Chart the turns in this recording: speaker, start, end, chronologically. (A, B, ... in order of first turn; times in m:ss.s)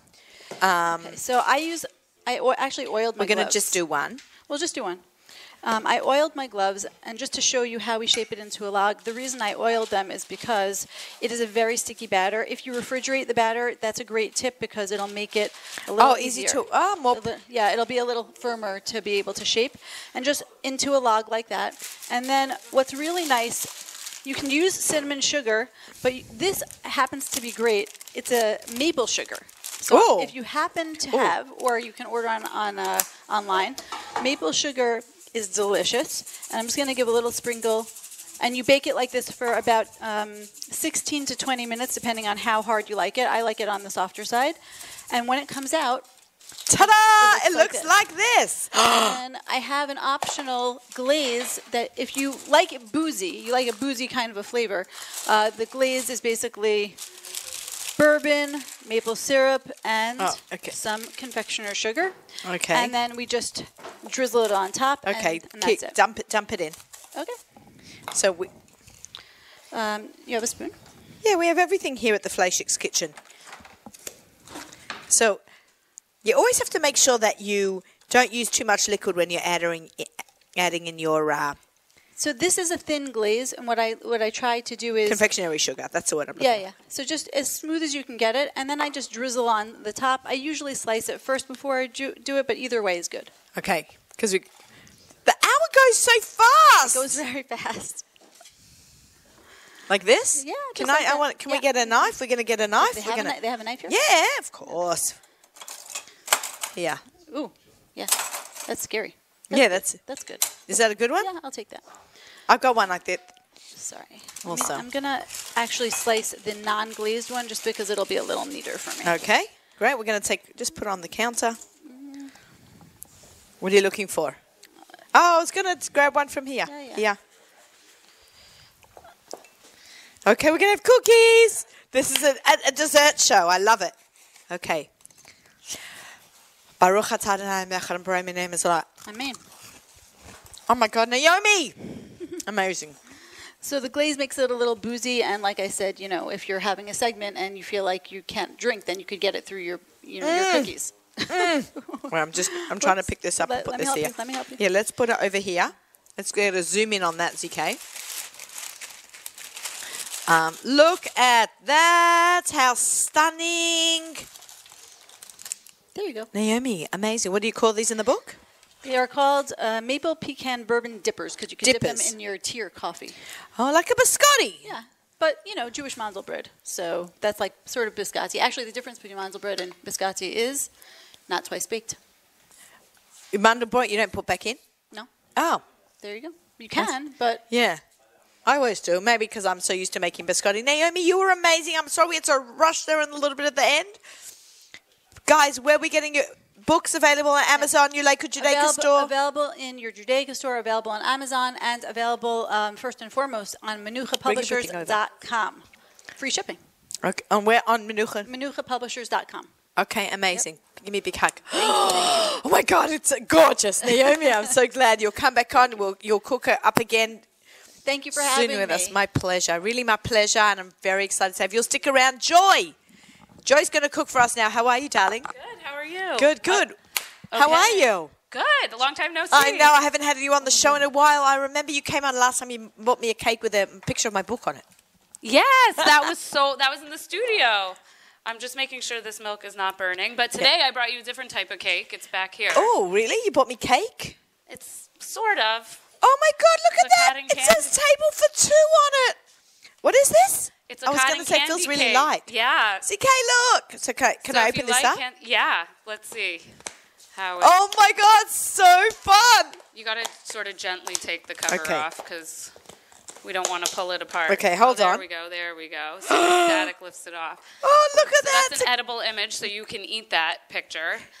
0:00.6-0:01.2 A
0:00.9-0:03.8 B
0:03.2-0:04.2 A
0:04.4-0:05.0 B
0:05.6-0:23.7 B
0:15.9-0:17.2 A
0:24.2-0:37.9 B
0:29.9-0:30.3 A
0:31.1-0:31.4 A
0:38.4-0:44.6 B
0:45.1-0:46.0 B
0:46.7-0:49.2 A
0:46.7-0:47.9 B
0:48.9-0:57.0 B
0:58.0-1:02.2 B
1:00.2-1:00.7 A
1:02.4-1:02.9 A
1:02.7-1:06.0 B
1:05.0-1:06.8 A
1:08.1-1:08.5 A
1:09.7-1:10.7 B
1:11.2-1:13.1 A
1:15.1-1:15.4 A
1:16.2-1:21.6 A
1:22.2-1:25.2 B
1:25.0-1:26.6 A
1:26.4-1:33.3 B
1:33.5-1:34.4 A
1:35.2-1:37.2 A
1:36.8-1:38.0 B
1:39.9-1:43.4 A
1:40.4-1:42.1 B
1:42.8-1:44.0 B
1:43.9-1:45.2 A
1:46.7-1:47.0 A
1:47.3-1:51.8 B
1:49.5-1:50.0 A
1:50.7-1:51.3 A
1:52.5-1:53.3 A
1:53.7-1:59.2 B
1:54.4-1:54.8 A
1:59.0-2:01.6 A
2:01.8-2:02.3 B
2:03.6-2:04.4 A
2:05.1-2:07.2 A
2:06.7-2:07.0 B
2:10.2-2:13.9 A
2:14.5-2:14.9 A
2:16.8-2:18.9 A
2:19.0-2:19.4 B
2:20.7-2:23.0 A
2:23.6-2:34.6 B
2:30.2-2:30.7 A
2:31.3-2:37.8 A
2:40.3-2:44.3 A
2:45.9-2:46.3 B
2:46.3-2:48.4 A
2:48.8-2:53.2 B
2:51.6-2:52.1 A
2:53.6-2:54.7 A
2:54.6-3:00.7 B
3:01.3-3:02.0 B
3:03.3-3:04.6 A
3:05.4-3:05.6 A
3:06.0-3:07.4 B
3:07.5-3:07.8 A
3:08.4-3:14.0 A
3:15.2-3:19.1 A
3:18.4-3:25.6 B
3:24.2-3:25.0 A
3:26.2-3:26.6 B
3:27.0-3:28.3 A
3:28.2-3:29.5 B
3:29.8-3:37.2 A
3:31.5-3:32.3 B
3:37.8-3:39.0 B
3:38.1-3:42.7 A
3:43.4-3:45.3 A
3:45.3-3:46.6 C
3:46.2-3:46.8 A
3:47.3-3:49.7 C
3:47.3-3:48.1 A
3:49.3-3:54.6 A
3:55.2-4:02.7 C
3:55.8-3:56.1 A
4:02.5-4:04.2 A
4:04.5-4:05.8 C
4:06.0-4:09.2 A
4:06.8-4:07.7 C
4:09.8-4:12.3 A
4:10.7-4:12.8 C
4:12.8-4:15.0 A
4:14.3-4:16.5 C
4:17.1-4:17.6 C
4:17.4-4:19.6 A
4:19.7-4:22.5 C
4:21.5-4:21.8 A
4:23.2-4:27.4 C
4:24.3-4:25.0 A
4:26.1-4:26.7 A
4:27.6-4:28.7 A
4:28.2-4:31.0 C